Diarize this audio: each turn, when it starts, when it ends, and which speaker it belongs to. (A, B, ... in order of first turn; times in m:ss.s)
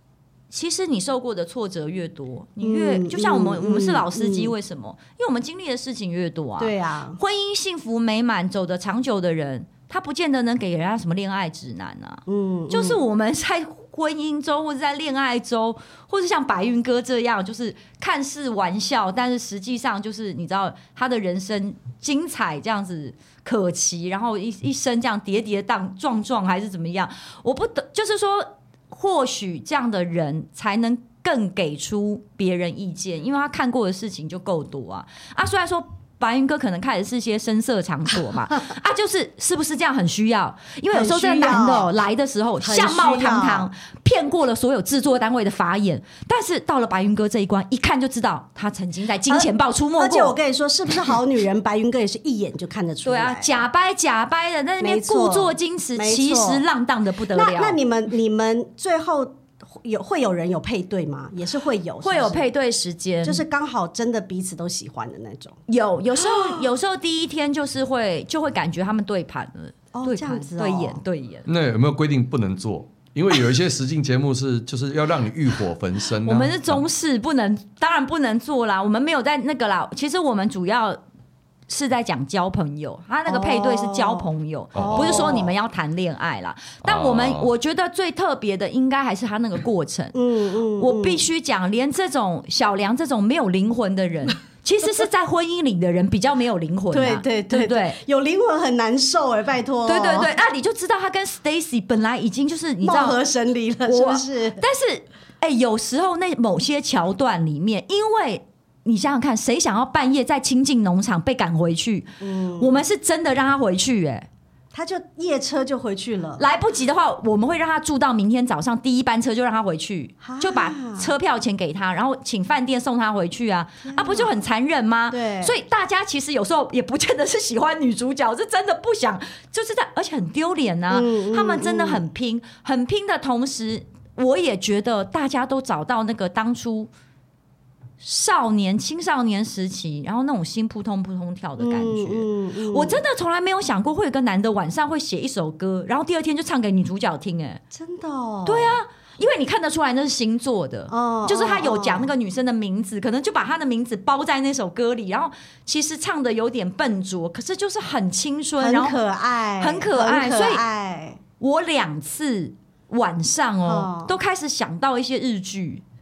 0:00.5-0:50.4 A
0:02.6-0:04.5 B
0:06.6-0:07.2 B
0:12.3-0:13.0 B
0:40.9-0:41.9 B
0:42.6-0:43.7 B
0:49.3-0:53.6 B
0:53.0-0:57.8 A
0:54.8-0:56.6 B
0:57.3-1:02.4 B
1:02.0-1:03.4 A
1:03.2-1:05.6 B
1:05.7-1:11.5 A
1:06.2-1:06.6 B
1:09.9-1:11.0 B
1:11.4-1:16.8 C
1:16.2-1:21.0 A
1:21.7-1:30.1 A
1:23.3-1:25.5 B
1:24.7-1:25.5 C
1:26.8-1:27.5 C
1:30.1-1:31.2 B
1:30.8-1:38.0 A
1:36.9-1:40.4 B
1:39.8-1:43.2 A
1:42.8-1:44.6 B
1:43.9-1:52.1 A
1:52.2-1:52.8 B
1:52.6-1:54.3 A
1:54.7-1:56.4 B
1:56.4-2:16.9 A
2:00.2-2:01.1 B
2:03.8-2:04.4 B
2:05.1-2:05.5 B
2:10.9-2:12.0 B
2:18.0-2:27.6 A
2:21.6-2:23.0 B
2:27.7-2:28.8 B
2:28.4-2:39.0 A
2:30.9-2:32.1 B
2:38.6-2:41.2 B
2:39.6-2:40.6 A
2:41.4-2:45.8 A
2:43.6-2:44.1 B